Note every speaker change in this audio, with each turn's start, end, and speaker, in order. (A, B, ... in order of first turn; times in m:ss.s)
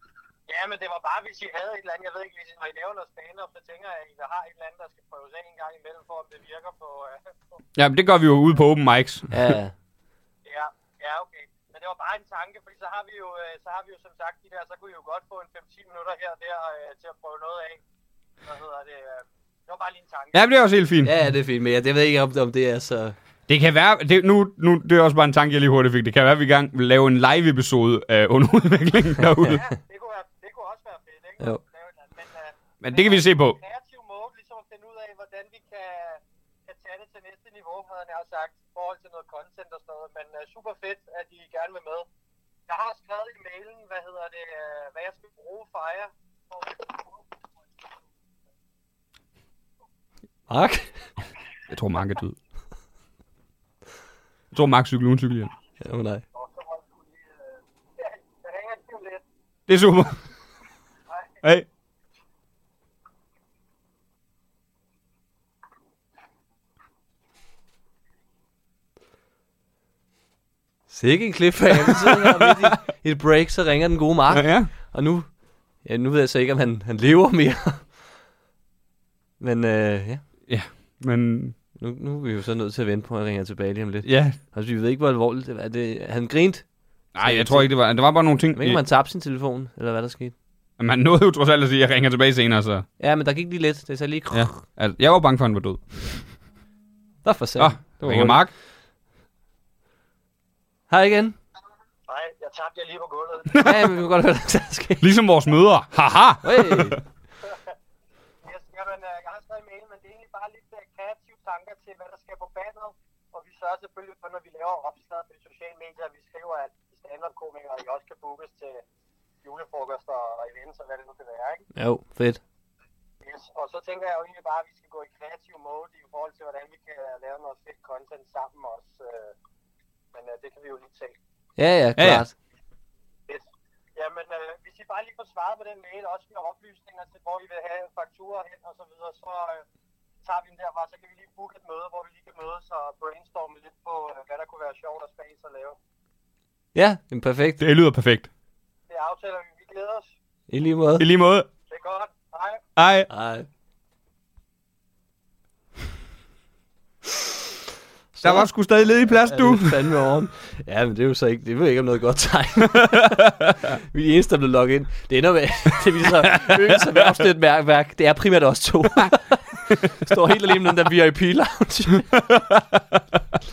0:00.5-0:07.4 A
0:07.8-0:09.6 B
0:09.3-0:09.7 C
0:10.4-0:17.8 A
0:18.4-0:20.4 A
0:20.3-0:21.1 B
0:21.0-0:23.2 C
0:23.5-0:29.6 B
0:29.5-0:42.1 A
0:32.8-0:33.6 B
0:42.7-0:47.1 A
0:50.5-0:51.1 C
0:51.7-0:52.4 B
0:54.5-0:55.5 B
0:55.8-0:56.2 C
0:56.4-0:57.1 A
0:58.0-0:59.2 A
0:59.7-1:00.2 B
1:10.9-1:18.0 C
1:11.8-1:12.7 B
1:14.3-1:14.7 B
1:19.4-1:20.2 C
1:20.5-1:21.6 B
1:21.8-1:27.8 C
1:24.0-1:24.4 B
1:27.1-1:28.8 B
1:28.5-1:30.3 C
1:30.8-1:32.9 B
1:33.0-1:34.6 C
1:34.3-1:36.2 B
1:37.2-1:38.4 C
1:37.6-1:38.5 B
1:40.9-1:41.4 C
1:42.1-1:43.7 A
1:43.6-1:45.0 C
1:45.0-1:47.0 B
1:46.4-1:47.0 C
1:48.4-1:58.8 A
1:59.4-2:01.7 A
2:01.8-2:02.4 C
2:03.2-2:09.4 A
2:10.1-2:11.2 A
2:11.6-2:12.3 C
2:12.0-2:12.2 B
2:14.0-2:19.6 A
2:20.2-2:25.8 A
2:26.8-2:27.6 C
2:27.6-2:28.3 B
2:28.9-2:30.1 A
2:30.5-2:31.0 C
2:31.0-2:31.5 B
2:31.7-2:32.6 A
2:32.8-2:33.1 B
2:33.1-2:33.5 C
2:38.1-2:38.5 C
2:38.2-2:39.8 B
2:39.1-2:52.2 C
2:42.8-2:43.5 B
2:46.2-2:47.1 B
2:49.7-2:50.2 B
2:52.1-2:53.0 B